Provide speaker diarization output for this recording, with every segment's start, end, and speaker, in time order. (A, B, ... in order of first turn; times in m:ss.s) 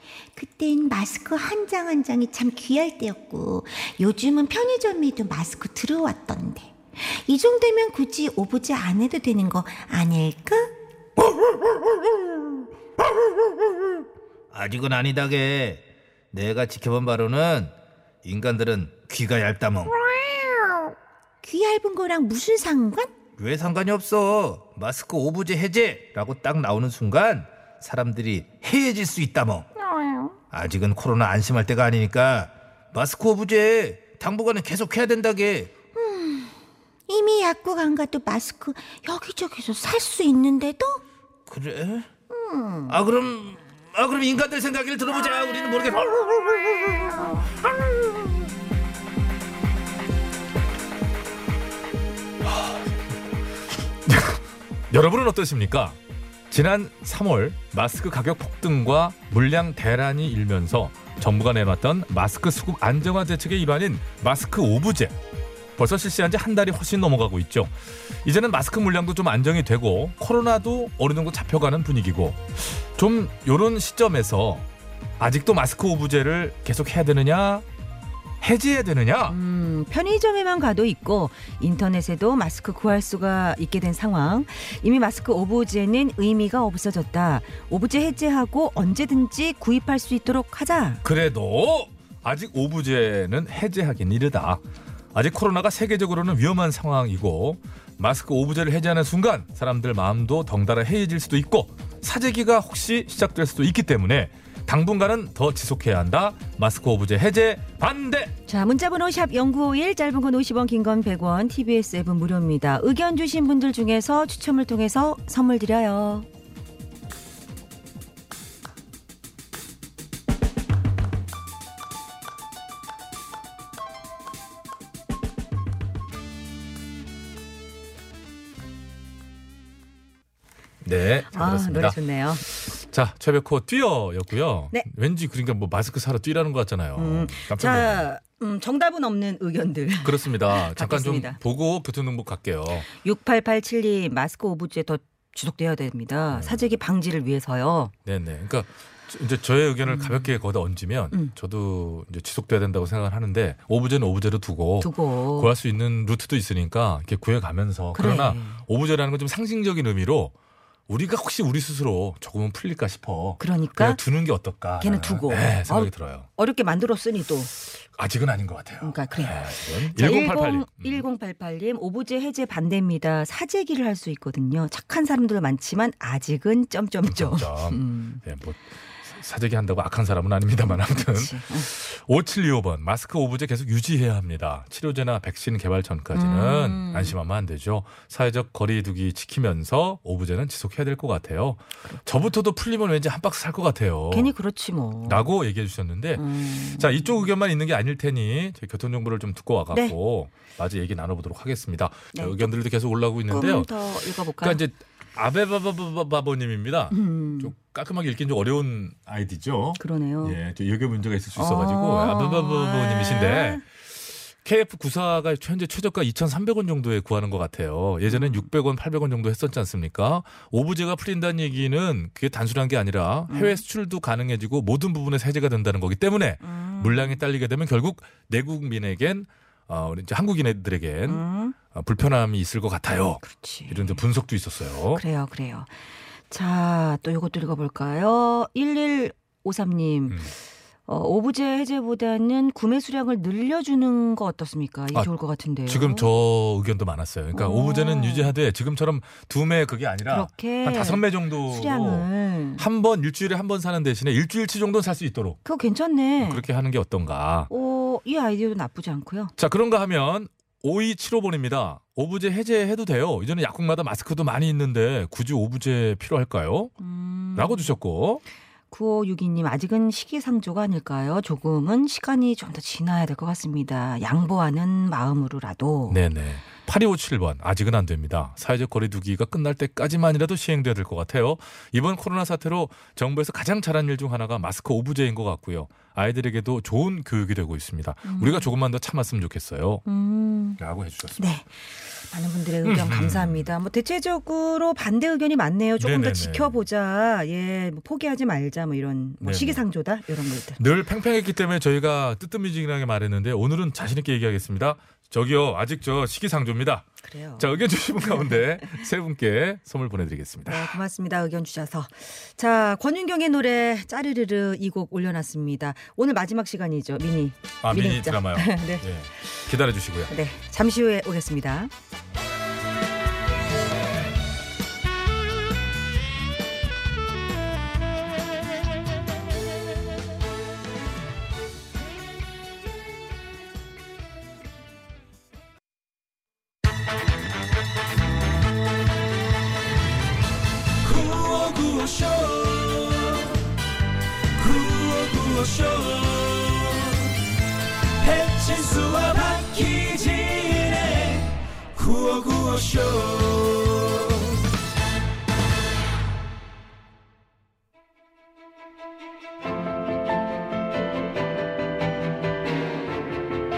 0:00.4-0:10.7 A
0:14.5-0:19.9 B
0:21.4-0:23.1 A
0:23.4-0:29.7 B
0:29.9-0:30.4 A
0:30.5-0:35.7 B
0:36.0-0:36.6 A
0:37.1-0:41.0 A
0:41.5-0:42.1 B
0:42.3-0:43.0 A
0:42.9-0:47.1 B
0:52.4-0:52.9 C
0:54.1-0:56.0 C
0:56.5-1:05.2 C
1:05.8-1:14.7 C
1:15.2-1:17.6 C
1:18.4-1:19.4 C
1:19.3-1:31.0 D
1:31.0-1:34.6 C
1:35.1-1:48.3 C
1:48.5-1:56.3 D
2:10.8-2:18.1 C
2:11.3-2:12.4 D
2:17.0-2:21.4 D
2:20.0-2:22.9 C
2:23.0-2:27.9 D
2:26.3-2:26.7 C
2:28.1-2:40.3 C
2:29.8-2:30.2 D
2:34.8-2:35.5 D
2:38.0-2:38.6 D
2:40.9-2:46.3 C
2:43.4-2:44.0 D
2:44.8-2:47.5 D
2:48.0-2:51.0 C
2:48.8-2:58.2 D
2:57.1-3:14.3 C
3:00.9-3:01.7 D
3:06.1-3:07.1 D
3:14.1-3:15.3 D
3:15.1-3:23.7 C
3:16.2-3:17.3 D
3:22.2-3:22.5 D
3:23.3-3:24.6 D
3:24.4-3:55.0 C
3:26.9-3:27.5 D
3:29.8-3:30.4 D
3:31.4-3:33.6 D
3:38.1-3:38.5 D
3:43.3-3:43.6 D
3:46.4-3:47.2 D
3:51.1-3:51.6 D
3:53.3-3:54.0 D
3:55.0-3:55.7 D
3:56.3-4:00.2 D
4:00.9-4:06.1 D
4:05.7-4:12.1 C
4:07.3-4:08.3 D
4:10.1-4:12.6 D
4:12.6-4:15.4 C
4:15.4-4:16.4 D
4:16.2-4:17.5 C
4:17.5-4:19.3 D
4:19.4-4:26.8 C
4:26.8-4:27.8 D
4:27.3-4:28.2 C
4:28.7-4:36.0 D
4:35.9-4:49.9 C
4:48.1-4:48.5 D
4:49.9-4:50.6 D
4:50.6-4:51.2 C
4:51.2-4:51.5 D
4:52.1-5:00.6 D
4:52.6-4:53.5 C
4:55.8-4:56.6 C
4:59.2-4:59.6 C
5:00.6-5:10.8 C
5:07.0-5:08.7 D
5:10.5-5:18.8 D
5:17.6-5:20.1 C
5:20.1-5:21.7 D
5:40.8-5:43.3 E
5:44.4-5:47.0 E
5:48.0-5:54.3 E